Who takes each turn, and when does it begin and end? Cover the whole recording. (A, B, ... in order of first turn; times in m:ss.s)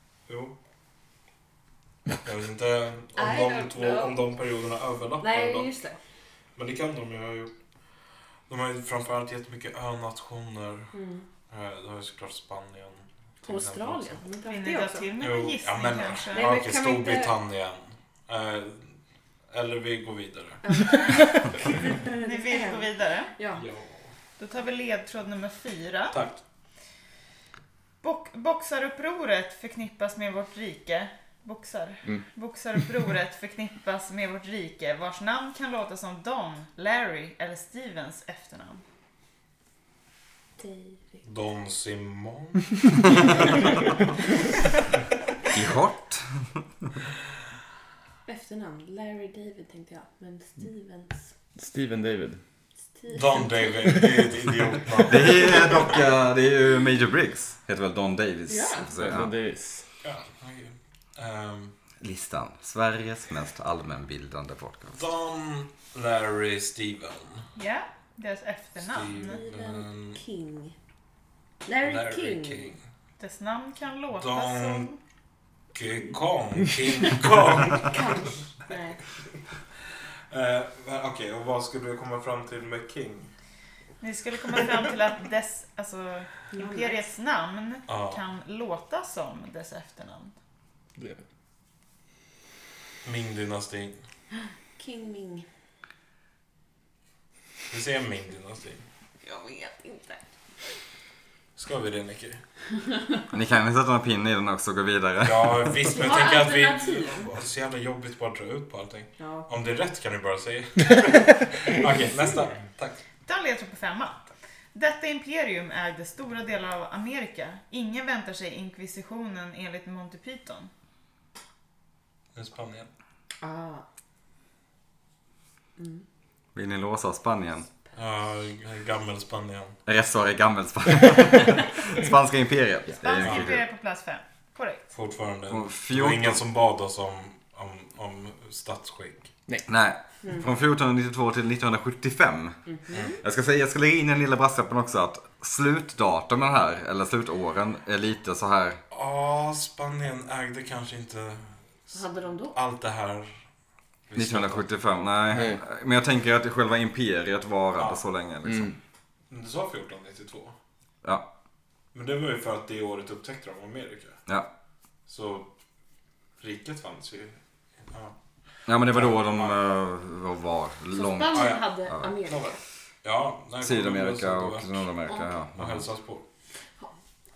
0:00.3-0:00.6 A
0:02.2-0:05.7 A
0:03.2-0:04.2 B
0:05.2-0:06.0 B
0:06.6-0:07.5 A
0:08.5-0:10.9 A
0:10.9-0:11.2 B
0:11.5-0:14.2 A
0:13.4-0:15.1 B
0:14.5-0:16.5 C
0:15.2-0:18.9 A
0:16.3-0:17.4 B
0:19.5-0:20.6 A
0:20.6-0:23.6 B
0:22.2-0:23.3 C
0:23.5-0:24.1 A
0:24.4-0:26.2 C
0:26.1-0:26.4 A
0:28.0-0:38.8 C
0:40.6-0:41.2 B
0:41.2-0:43.7 A
0:45.5-0:46.6 D
0:48.3-0:51.3 B
0:51.6-0:52.4 E
0:53.0-0:54.0 B
0:53.1-0:56.0 A
0:55.1-0:59.3 D
0:58.5-0:58.9 B
0:59.0-0:59.9 E
1:00.0-1:01.7 A
1:02.0-1:05.0 D
1:04.9-1:07.5 A
1:07.6-1:09.4 C
1:08.8-1:10.2 A
1:09.2-1:10.8 B
1:11.6-1:12.7 B
1:11.8-1:12.8 A
1:13.2-1:15.0 C
1:14.2-1:14.9 A
1:15.7-1:18.8 A
1:17.8-1:19.0 B
1:20.3-1:23.3 A
1:24.0-1:30.3 C
1:26.5-1:27.0 B
1:27.9-1:28.2 A
1:33.0-1:34.0 A
1:34.8-1:35.5 B
1:37.7-1:38.8 A
1:39.2-1:40.2 B
1:41.6-1:42.4 A
1:43.3-1:45.7 D
1:45.2-1:53.0 A
1:45.9-1:47.3 B
1:49.2-1:49.5 B
1:53.2-2:00.7 C
2:02.4-2:02.9 A
2:03.4-2:03.8 B
2:05.8-2:06.0 B
2:06.6-2:07.7 D
2:07.9-2:09.8 A
2:09.9-2:13.6 D
2:13.0-2:14.9 C
2:13.2-2:13.5 A
2:14.9-2:19.3 A
2:15.5-2:16.4 D
2:19.7-2:22.6 D
2:22.7-2:23.2 B
2:22.9-2:23.2 A
2:23.2-2:28.8 D
2:28.9-2:32.0 A
2:31.9-2:32.6 B
2:32.5-2:33.4 A
2:34.1-2:34.7 A
2:34.2-2:38.7 D
2:37.8-2:38.0 A
2:38.4-2:38.8 E
2:39.3-2:40.6 A
2:41.9-2:44.2 A
2:45.1-2:45.5 A
2:46.4-2:48.2 A
2:48.7-2:52.1 D
2:48.7-2:49.6 A
2:50.9-2:52.6 B
2:51.3-2:54.9 A
2:53.6-2:55.8 D
2:55.1-2:55.3 B
2:55.5-2:56.2 A